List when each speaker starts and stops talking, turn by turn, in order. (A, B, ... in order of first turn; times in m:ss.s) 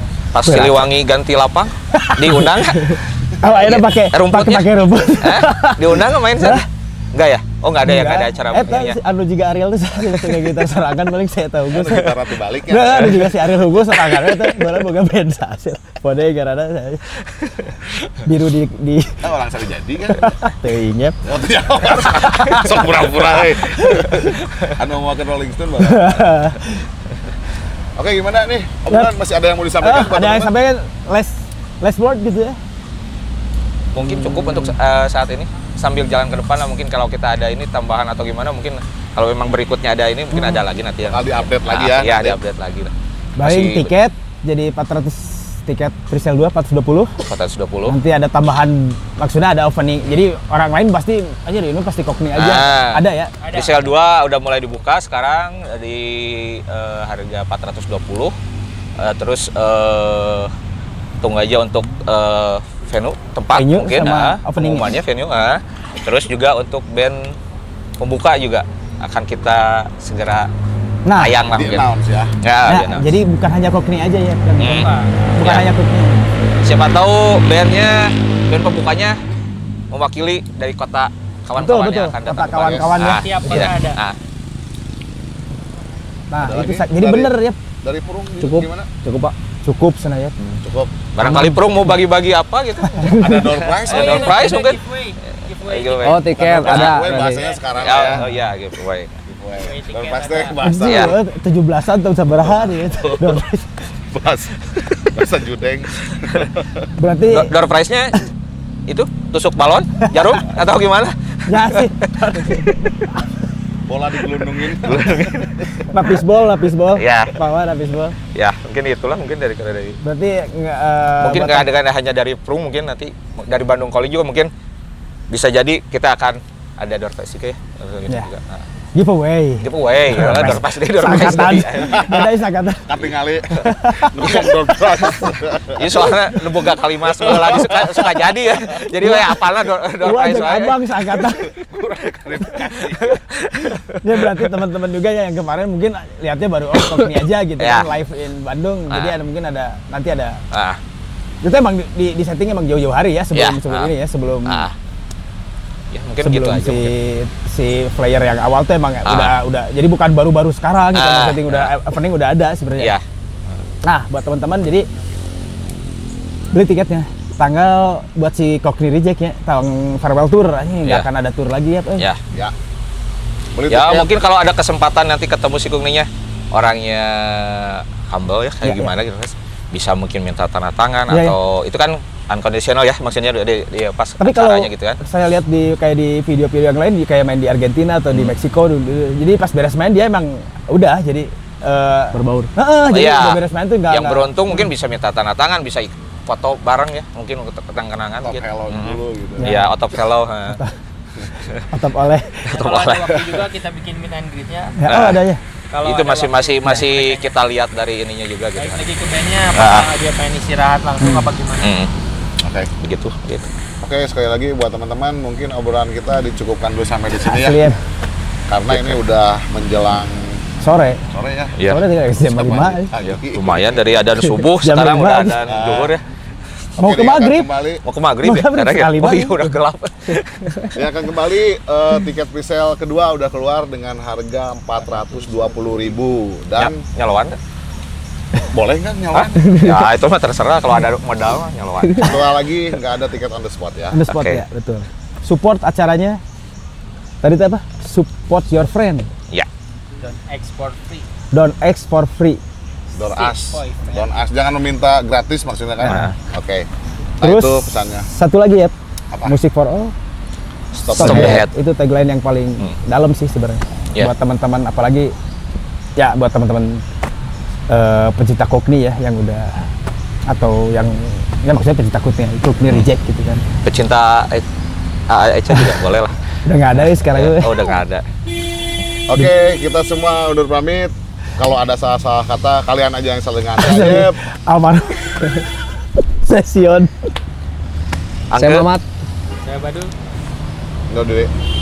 0:00.3-0:04.7 A
0:00.4-0:00.8 B
0:01.9-0:06.6 B
0:05.2-0:09.0 A
0:07.8-0:17.2 B
0:11.7-0:13.4 C
0:18.2-0:19.2 B
0:19.2-0:20.4 C
0:20.1-0:21.2 B
0:21.2-0:26.2 C
0:22.0-0:22.9 B
0:23.9-0:24.2 B
0:25.8-0:26.8 B
0:28.0-0:30.5 C
0:29.8-0:32.6 B
0:33.9-0:43.9 A
0:34.0-0:34.7 B
0:40.3-0:40.6 B
0:41.0-0:42.4 C
0:43.4-0:47.1 B
0:47.2-0:48.0 A
0:47.9-0:53.3 B
0:52.4-0:58.3 A
0:53.4-0:53.9 D
0:59.0-1:00.5 A
1:01.2-1:07.4 A
1:03.5-1:05.0 B
1:08.0-1:10.5 A
1:11.1-1:11.4 B
1:11.2-1:11.9 A
1:11.5-1:12.3 C
1:12.4-1:13.1 A
1:12.7-1:16.2 B
1:14.6-1:15.7 A
1:14.6-1:15.1 D
1:16.6-1:19.2 A
1:19.9-1:24.2 A
1:21.6-1:23.7 B
1:22.6-1:22.9 C
1:23.0-1:24.0 D
1:26.3-1:27.6 B
1:26.4-1:28.9 C
1:28.4-1:29.3 E
1:29.6-1:30.4 B
1:30.6-1:31.1 C
1:31.2-1:34.8 A
1:31.2-1:31.9 E
1:33.0-1:34.4 C
1:33.9-1:36.3 D
1:35.6-1:37.0 A
1:36.0-1:37.4 E
1:36.3-1:38.2 C
1:36.8-1:38.1 D
1:37.8-1:39.2 A
1:39.3-1:41.2 C
1:39.6-1:40.6 D
1:40.6-1:43.8 B
1:40.8-1:41.2 A
1:42.7-1:43.5 C
1:44.0-1:46.9 C
1:46.0-1:46.5 A
1:47.0-1:47.5 B
1:47.3-1:48.3 A
1:48.9-1:52.9 A
1:51.5-1:53.2 B
1:53.9-1:55.7 C
1:54.8-1:56.0 A
1:55.9-1:58.2 B
1:56.9-1:57.4 A
1:58.3-2:00.0 A
2:00.0-2:01.7 B
2:01.2-2:04.5 A
2:05.3-2:08.7 A
2:09.0-2:15.3 B
2:09.6-2:12.1 A
2:11.9-2:12.3 C
2:12.8-2:18.8 C
2:15.8-2:21.0 A
2:19.0-2:19.4 B
2:20.0-2:21.5 B
2:21.3-2:23.2 C
2:22.8-2:24.0 A
2:23.7-2:30.4 B
2:27.6-2:27.9 A
2:28.9-2:29.2 A
2:30.5-2:30.8 A
2:31.4-2:34.7 B
2:33.4-2:33.9 A
2:34.5-2:34.8 A
2:35.9-2:36.9 A
2:36.2-2:42.9 B
2:39.1-2:39.4 A
2:40.9-2:41.7 A
2:42.8-2:43.6 A
2:43.8-2:44.9 B
2:46.5-2:52.1 B
2:53.6-2:54.1 C
2:53.7-3:05.0 A
2:58.6-2:58.9 B
3:01.1-3:01.4 B
3:04.2-3:14.7 B
3:12.1-3:12.5 E
3:12.9-3:20.6 A
3:18.2-3:19.5 C
3:19.4-3:19.7 B
3:20.5-3:20.8 B
3:21.4-3:21.7 A
3:21.7-3:22.6 B
3:22.5-3:23.2 A
3:22.5-3:24.8 D
3:24.8-3:25.4 B
3:24.9-3:25.2 A
3:25.7-3:27.3 D
3:25.8-3:28.8 A
3:28.6-3:31.7 D
3:29.5-3:29.9 A
3:31.0-3:31.3 B
3:31.6-3:31.9 A
3:32.4-3:32.7 C
3:32.8-3:33.5 A
3:33.8-3:37.6 C
3:37.2-3:37.8 B
3:38.5-3:40.4 C
3:40.6-3:41.1 B
3:41.1-3:44.0 C
3:41.6-3:41.8 A
3:41.6-3:42.9 B
3:43.0-3:46.0 A
3:44.2-3:45.4 B
3:45.5-3:45.9 C
3:46.8-3:47.5 B
3:46.8-3:47.8 C
3:47.8-3:50.7 A
3:48.2-3:49.5 B
3:50.7-3:56.8 C
3:54.9-3:55.8 D
3:56.6-3:57.4 A
3:58.5-3:59.6 C
3:59.1-4:02.1 A
3:59.5-3:59.8 E
4:02.0-4:04.0 C
4:03.9-4:06.2 B
4:04.1-4:04.4 A
4:07.2-4:09.1 B
4:10.0-4:11.1 D
4:11.3-4:12.4 B
4:13.0-4:16.7 C
4:13.2-4:14.2 D
4:15.9-4:16.2 A
4:17.2-4:18.1 C
4:17.2-4:18.7 B
4:19.3-4:19.9 B
4:20.7-4:25.1 B
4:20.9-4:21.4 C
4:21.0-4:21.5 A
4:26.0-4:26.8 B
4:27.7-4:29.7 B
4:30.3-4:33.4 B
4:33.6-4:34.4 A
4:35.1-4:36.2 A
4:35.5-4:35.8 B
4:36.4-4:37.6 B
4:36.7-4:38.0 A
4:39.1-4:44.2 C
4:43.6-4:45.5 B
4:46.2-4:46.9 B
4:48.3-4:48.7 A
4:48.3-4:48.8 E
4:49.4-4:49.9 D
4:50.9-4:51.3 C